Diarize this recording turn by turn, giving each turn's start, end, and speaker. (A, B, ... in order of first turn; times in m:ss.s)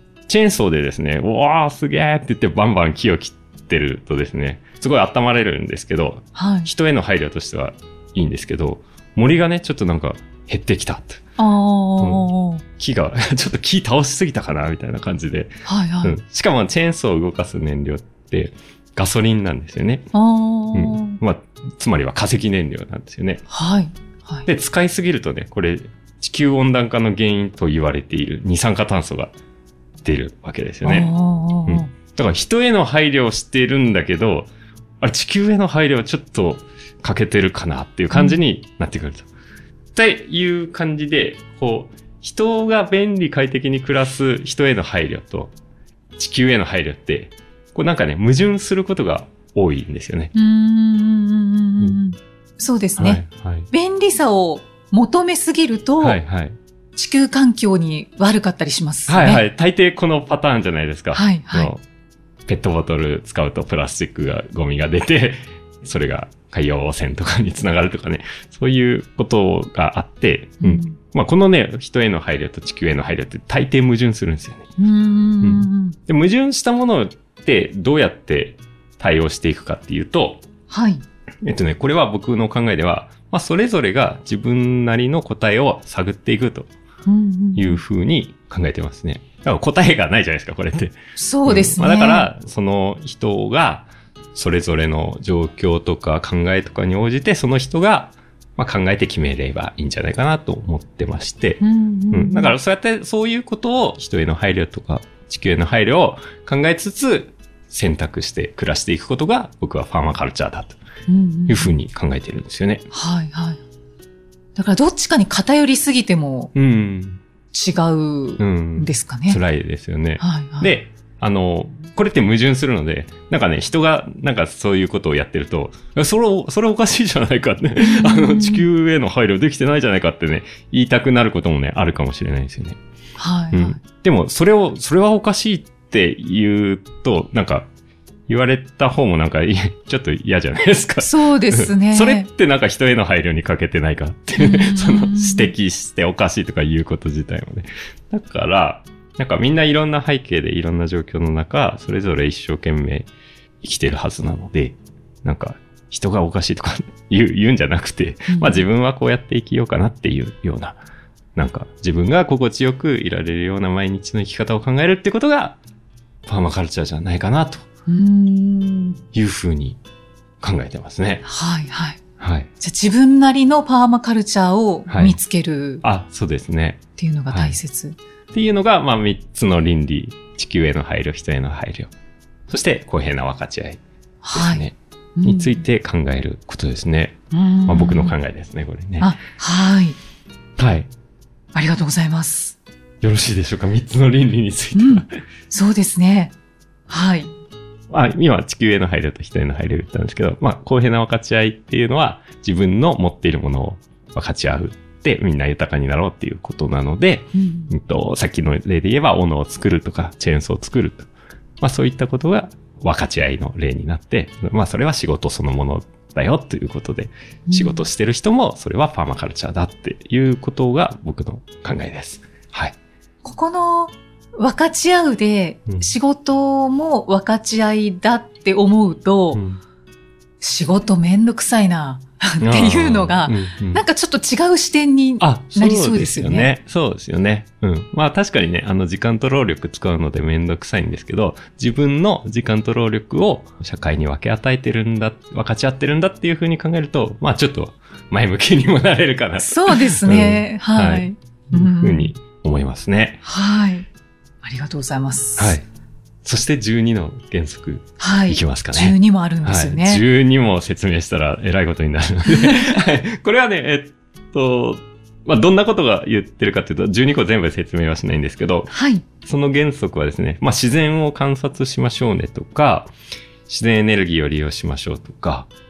0:00.3-0:11.2 A
0:06.4-0:06.7 B
0:11.4-0:12.6 B
0:12.0-0:20.1 A
0:15.7-0:16.1 B
0:20.1-0:21.2 B
0:20.7-0:23.4 A
0:23.5-0:24.5 B
0:24.5-0:29.3 A
0:30.0-0:31.1 A
0:30.8-0:31.9 B
0:31.7-0:34.5 A
0:35.0-0:39.3 A
0:38.1-0:38.4 B
0:40.0-0:45.5 A
0:46.2-0:50.3 A
0:50.3-0:56.2 B
0:53.0-0:53.7 A
0:56.0-0:56.6 A
0:57.0-0:59.4 B
0:59.1-1:01.8 A
1:01.1-1:01.7 B
1:02.5-1:14.7 A
1:10.6-1:11.0 B
1:14.8-1:16.0 B
1:15.4-1:20.4 A
1:20.7-1:21.0 B
1:21.4-1:26.7 A
1:27.1-1:27.8 B
1:27.6-1:50.8 A
1:31.2-1:32.3 B
1:41.6-1:42.5 B
1:51.1-1:51.7 B
1:51.5-1:52.9 A
1:52.9-1:53.6 B
1:54.6-1:56.5 B
1:56.6-1:57.2 A
1:57.5-1:59.4 B
1:58.4-2:12.8 A
2:00.2-2:00.7 B
2:07.8-2:08.6 B
2:13.2-2:13.8 B
2:13.5-2:17.7 A
2:18.3-2:33.1 A
2:21.0-2:22.3 B
2:24.4-2:25.5 B
2:33.6-2:40.8 A
2:38.3-2:38.6 B
2:41.4-2:45.6 A
2:46.3-2:47.6 A
2:47.9-2:49.0 B
2:49.1-2:49.8 A
2:50.4-2:51.2 A
2:51.2-2:52.0 B
2:52.2-2:52.5 A
2:52.6-2:55.8 B
2:54.9-2:55.2 A
2:55.8-2:57.6 A
2:57.0-2:58.0 B
2:58.3-3:01.9 A
3:02.5-3:03.8 A
3:04.2-3:04.7 B
3:04.3-3:09.1 A
3:05.2-3:05.6 B
3:07.3-3:08.2 B
3:09.0-3:10.0 B
3:10.6-3:10.9 A
3:11.6-3:12.6 B
3:13.0-3:15.1 A
3:14.8-3:16.3 B
3:16.9-3:17.3 B
3:17.9-3:31.1 A
3:27.4-3:27.7 B
3:31.6-3:42.8 A
3:37.5-3:37.8 B
3:43.2-3:49.4 B
3:49.3-3:49.6 A
3:50.4-3:56.5 B
3:52.4-3:53.8 A
3:55.2-4:13.2 A
4:09.4-4:12.1 B
4:13.2-4:13.9 B
4:14.4-4:15.6 B
4:15.4-4:15.6 A
4:16.2-4:32.9 A
4:18.0-4:20.0 B
4:22.3-4:22.8 B
4:28.7-4:29.0 B
4:33.5-4:35.5 A